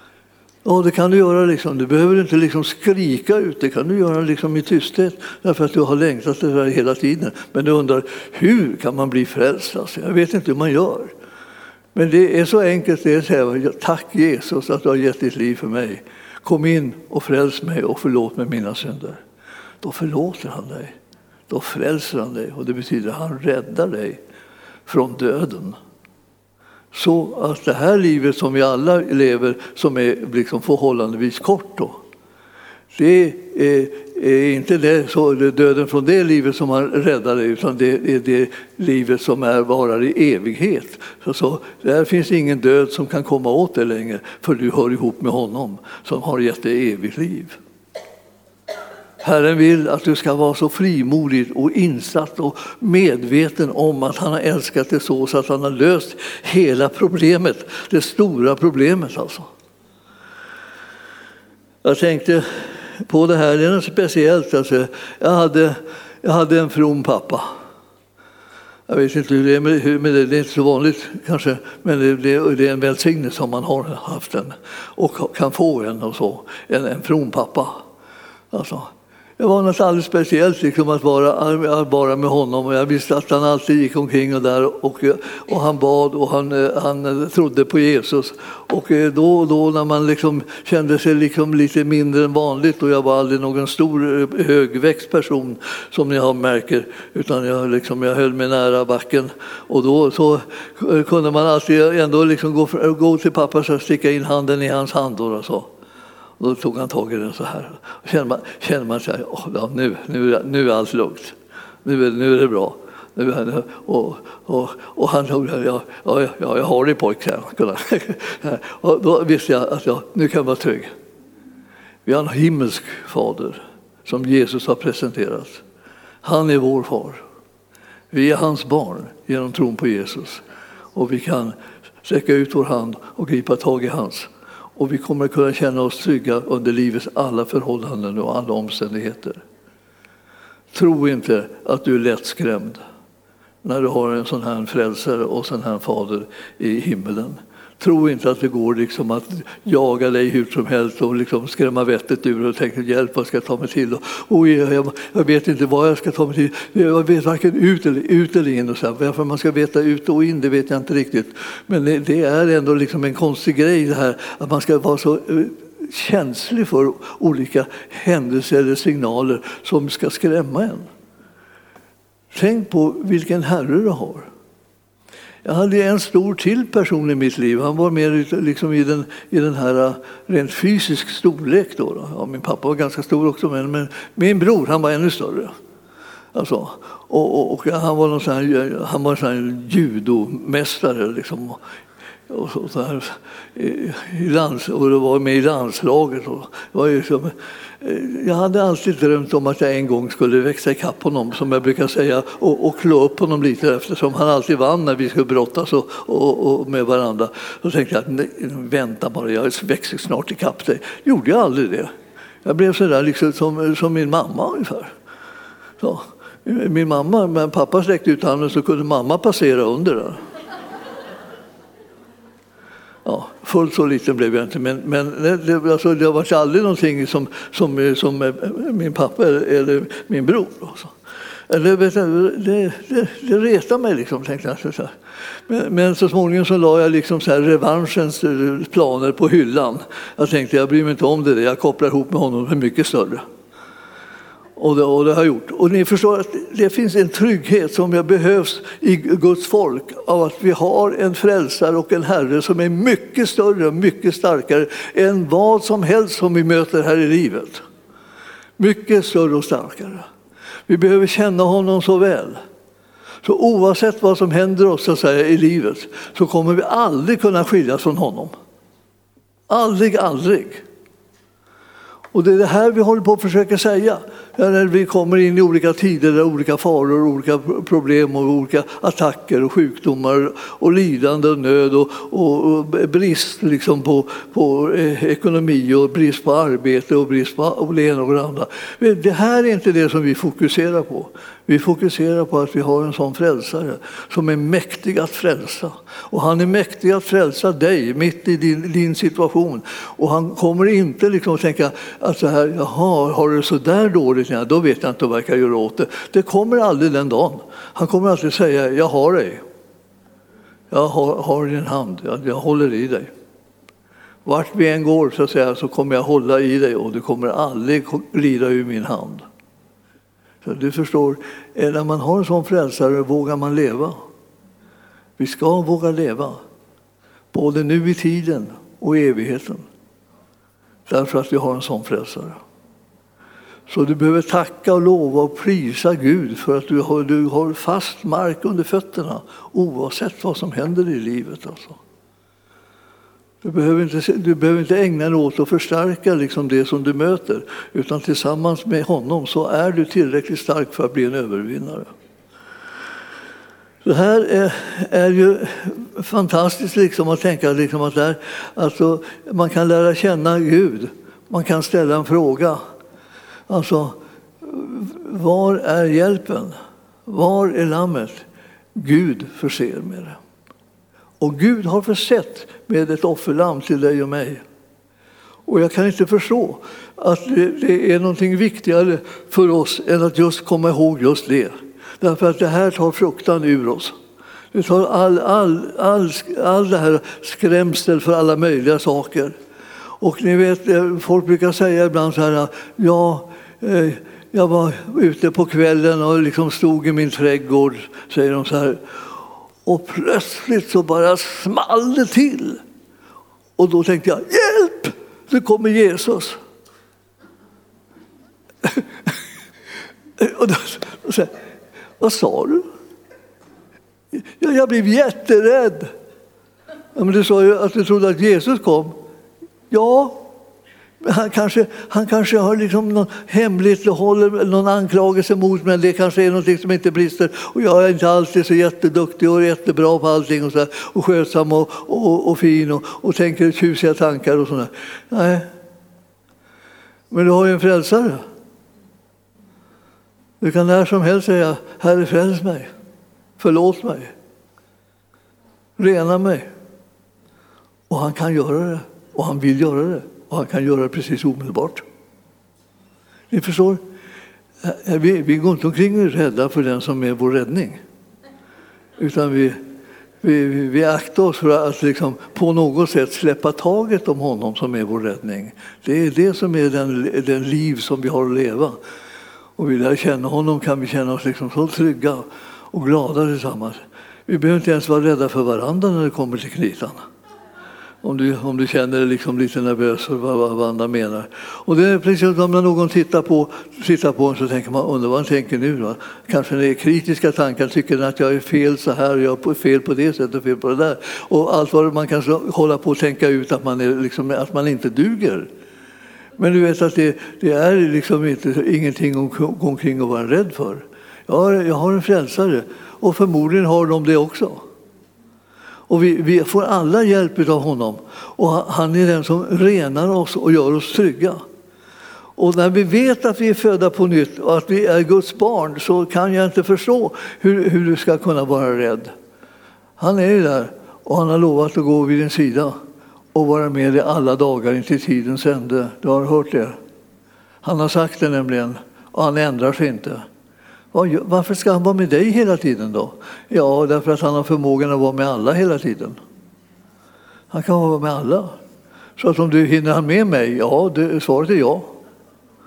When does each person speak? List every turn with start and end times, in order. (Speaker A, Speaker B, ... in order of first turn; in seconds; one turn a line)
Speaker A: 0.6-11.1
Speaker A: 11.9-19.2
Speaker A: 19.8-20.9
Speaker A: 21.5-24.2
Speaker A: 24.9-25.8
Speaker A: 26.9-32.0
Speaker A: 32.9-47.6
Speaker A: 49.2-59.5
Speaker A: 61.8-67.5
Speaker A: 68.9-77.8
Speaker A: 78.5-105.7
Speaker A: 106.4-120.9
Speaker A: 122.0-125.6
Speaker A: 126.2-127.2
Speaker A: 128.1-130.4
Speaker A: 130.9-139.4
Speaker A: 140.7-142.8
Speaker A: 143.6-170.9
Speaker A: 172.3-174.3
Speaker A: 175.4-185.5
Speaker A: 186.3-191.6
Speaker A: 192.3-211.9
Speaker A: 212.4-214.9
Speaker A: 215.8-220.2
Speaker A: 223.0-230.9
Speaker A: 231.5-234.9
Speaker A: 235.5-243.2
Speaker A: 244.6-257.6
Speaker A: 258.6-260.1
Speaker A: 260.7-262.4
Speaker A: 263.2-268.3
Speaker A: 269.5-270.6
Speaker A: 272.1-309.4
Speaker A: 310.7-313.1
Speaker A: 314.2-319.2
Speaker A: 320.4-324.0
Speaker A: 325.2-326.4
Speaker A: 327.3-329.6
Speaker A: 330.9-332.4
Speaker A: 333.7-341.8
Speaker A: 343.4-351.9
Speaker A: 353.8-362.6
Speaker A: 363.5-366.5
Speaker A: 367.1-368.2
Speaker A: 368.7-370.2
Speaker A: 371.2-374.4
Speaker A: 375.5-383.9
Speaker A: 384.5-389.3
Speaker A: 390.0-398.8
Speaker A: 399.6-402.6
Speaker A: 403.6-406.4
Speaker A: 410.2-411.3
Speaker A: 412.0-412.6
Speaker A: 414.1-415.9
Speaker A: 416.9-418.9
Speaker A: 419.7-420.2
Speaker A: 421.0-435.5
Speaker A: 437.1-438.2
Speaker A: 440.4-442.7
Speaker A: 443.4-444.1
Speaker A: 445.8-446.5
Speaker A: 447.9-451.8
Speaker A: 453.3-453.8
Speaker A: 454.6-457.8
Speaker A: 459.0-459.6
Speaker A: 460.2-468.8
Speaker A: 469.6-477.1
Speaker A: 478.0-495.5
Speaker A: 496.4-504.6
Speaker A: 505.9-511.4
Speaker A: 512.4-519.1
Speaker A: 520.0-522.8
Speaker A: 523.3-526.8
Speaker A: 527.6-530.2
Speaker A: 530.9-536.2
Speaker A: 537.5-538.5
Speaker A: 539.2-541.9